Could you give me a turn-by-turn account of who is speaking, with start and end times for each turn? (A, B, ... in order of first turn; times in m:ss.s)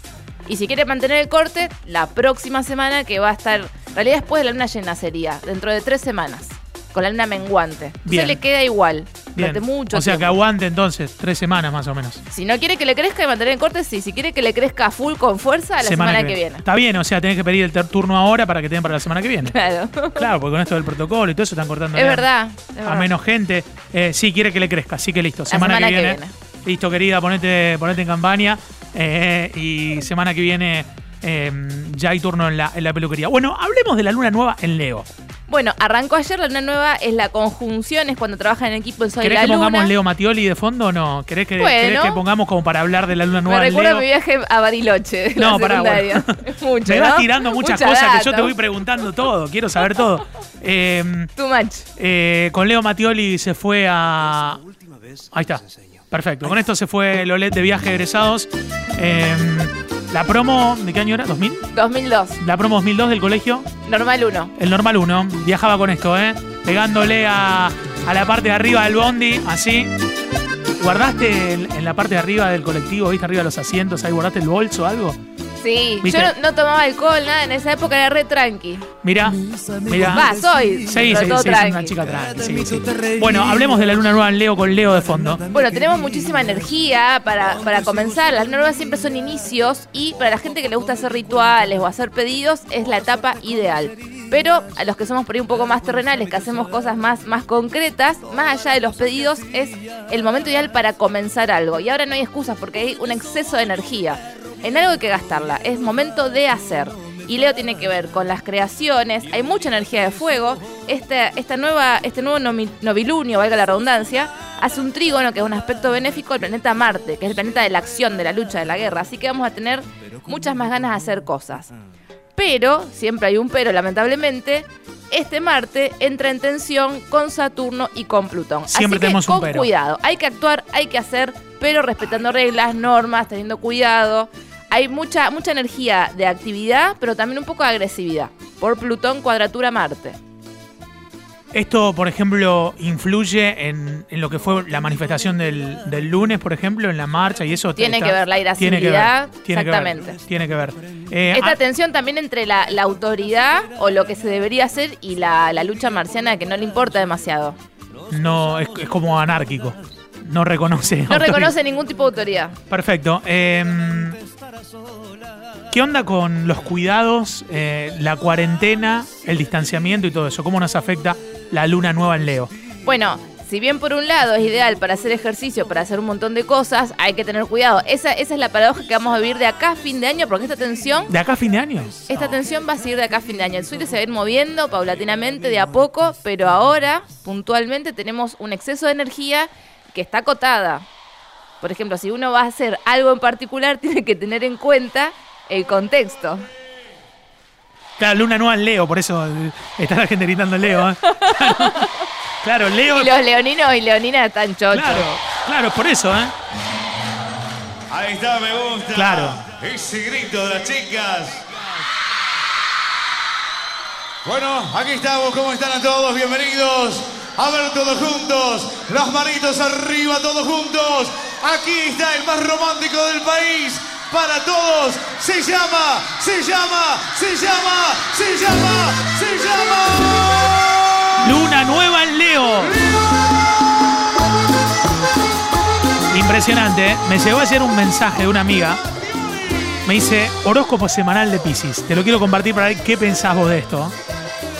0:00.4-0:10.4 A
0:08.0-0:08.4 B
0:09.4-0:12.2 B
0:12.3-0:16.6 A
0:15.8-0:19.5 B
0:19.4-0:20.3 A
0:20.2-0:22.3 B
0:21.9-0:23.1 A
0:22.8-0:35.0 B
0:25.5-0:26.3 A
0:35.5-0:39.9 A
0:39.2-0:44.1 B
0:41.6-0:42.2 A
0:43.4-0:48.5 A
0:45.4-0:51.3 B
0:51.4-0:51.8 A
0:52.0-0:54.6 B
0:55.3-1:01.7 B
1:01.7-1:02.4 A
1:02.4-1:03.7 B
1:03.8-1:04.5 A
1:04.6-1:09.9 B
1:10.8-1:15.2 B
1:15.6-1:18.9 A
1:16.0-1:16.3 B
1:19.0-1:25.4 B
1:20.0-1:22.0 A
1:25.5-2:01.7 A
2:02.4-2:20.2 A
2:08.7-2:09.7 B
2:21.5-2:31.6 B
2:27.8-2:30.2 A
2:31.3-2:37.6 A
2:38.1-2:41.5 B
2:41.1-2:42.6 A
2:42.7-2:44.2 B
2:45.7-2:52.5 B
2:52.8-3:01.1 A
3:01.1-3:02.1 B
3:02.1-3:10.8 A
3:11.6-3:16.4 A
3:18.0-3:23.2 B
3:21.0-3:22.0 A
3:22.9-3:25.1 A
3:24.7-3:26.3 B
3:27.9-3:31.5 C
3:28.9-3:29.4 B
3:34.2-3:50.5 C
3:51.2-3:52.8 B
3:56.1-3:58.8 B
3:59.8-4:03.9 B